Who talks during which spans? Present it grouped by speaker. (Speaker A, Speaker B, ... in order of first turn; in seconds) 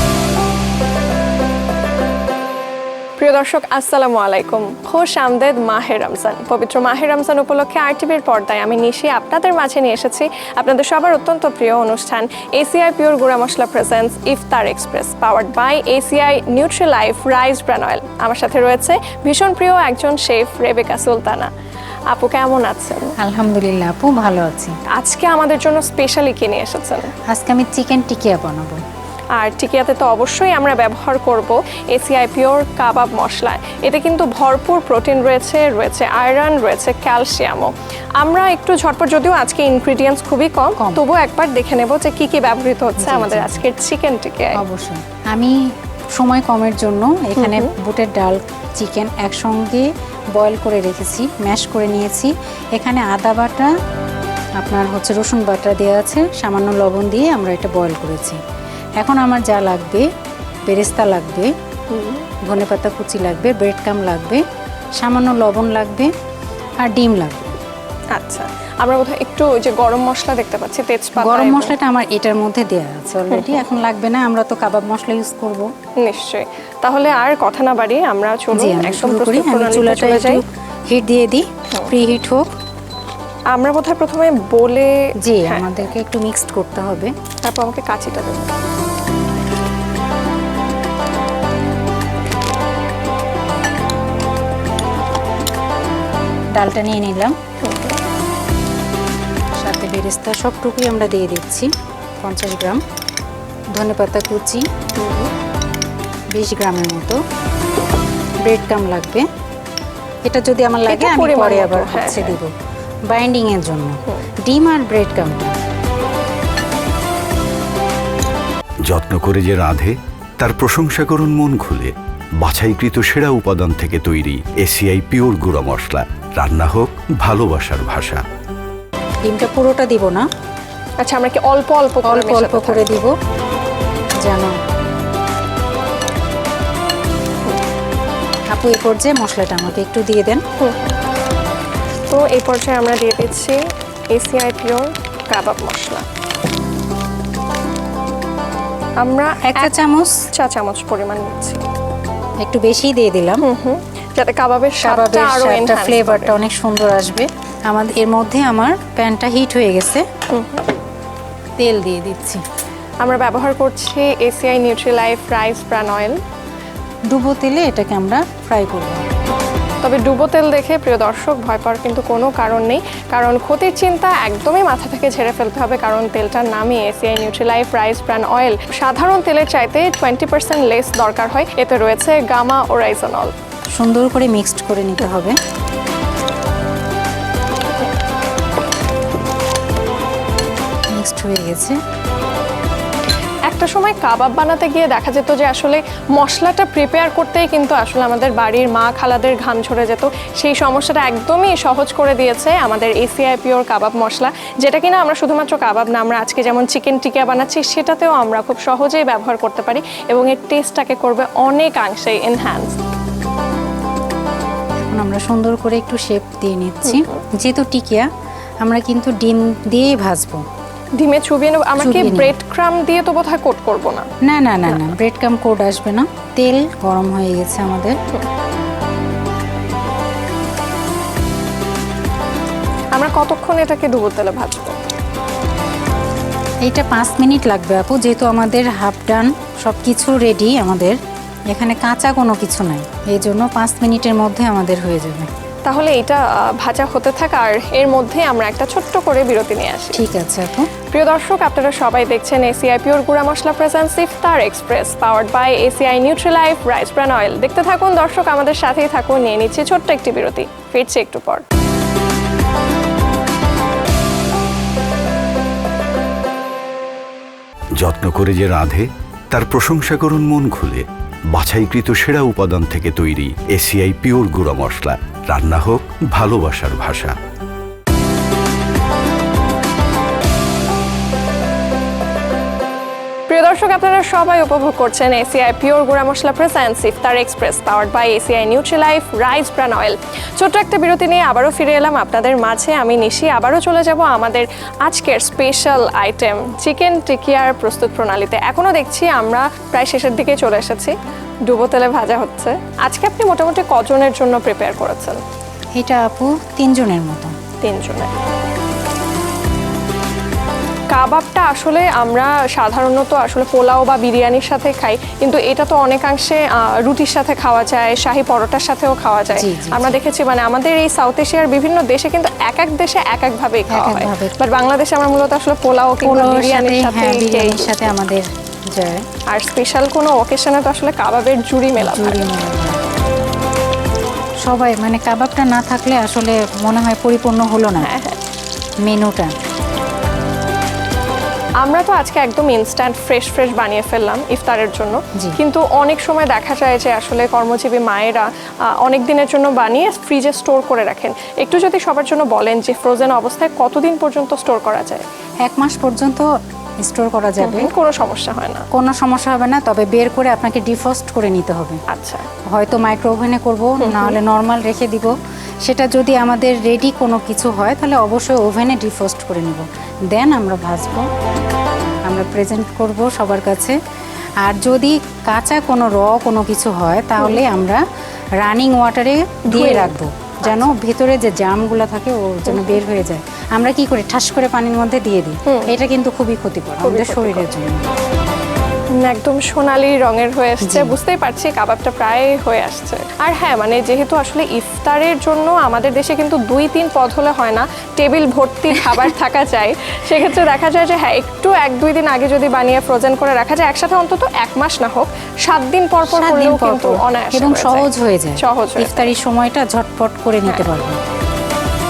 Speaker A: 3.2-21.5, 22.1-23.1, 24.9-27.1, 29.4-44.6, 47.4-47.7, 61.9-62.2, 68.1-71.7, 73.3-73.6, 76.0-80.4, 83.5-84.9, 87.4-88.5, 97.6-98.0, 105.0-105.3, 110.9-112.4, 131.0-133.0, 140.6-140.9, 142.1-143.6, 144.1-146.0, 149.0-149.7, 150.3-151.6, 153.4-156.3, 160.3-160.6, 163.0-166.2, 169.8-183.3, 193.5-212.8, 216.8-217.2, 221.0-224.1, 232.9-234.8, 245.7-250.0, 250.9-261.4, 283.3-300.9, 301.5-305.2, 307.6-308.1, 310.9-327.9, 329.3-332.2, 337.8-338.2, 341.6-348.2, 348.8-355.0, 357.4-358.6, 361.9-362.3, 363.8-364.2, 377.2-377.4, 379.5-380.7, 382.5-382.8, 385.5-385.8, 386.8-387.5, 389.0-407.9, 408.4-409.1
Speaker B: 23.2-24.7, 27.3-28.8, 43.0-43.6, 44.5-45.5, 46.2-53.7, 54.6-58.4, 59.0-60.1, 60.7-61.5, 62.5-64.4, 65.0-66.1, 66.8-67.5, 71.2-75.7, 78.5-82.4, 85.2-87.1, 96.6-97.3, 99.6-101.7, 102.2-102.8, 103.7-104.6, 106.3-107.2, 108.5-109.2, 110.2-112.5, 113.1-115.5, 129.2-130.2, 132.0-133.1, 134.2-134.5, 138.5-140.4, 149.4-150.1, 152.4-153.4, 154.8-160.0, 161.6-162.4, 167.1-169.0, 183.8-185.3, 191.0-191.8, 214.9-218.1, 218.6-220.4, 221.8-222.3, 224.3-227.9, 236.7-241.0, 241.5-245.3, 249.9-250.7, 305.8-307.3, 319.3-319.9, 323.7-324.4, 326.0-329.0, 331.8-332.8, 334.4-337.9, 338.9-339.3, 355.4-356.3, 356.8-357.7, 358.7-361.8, 362.5-365.1, 365.6-371.1, 372.1-373.8, 374.4-377.8, 378.4-387.8, 390.6-390.9, 406.0-411.0
Speaker C: 118.9-128.2, 267.8-277.1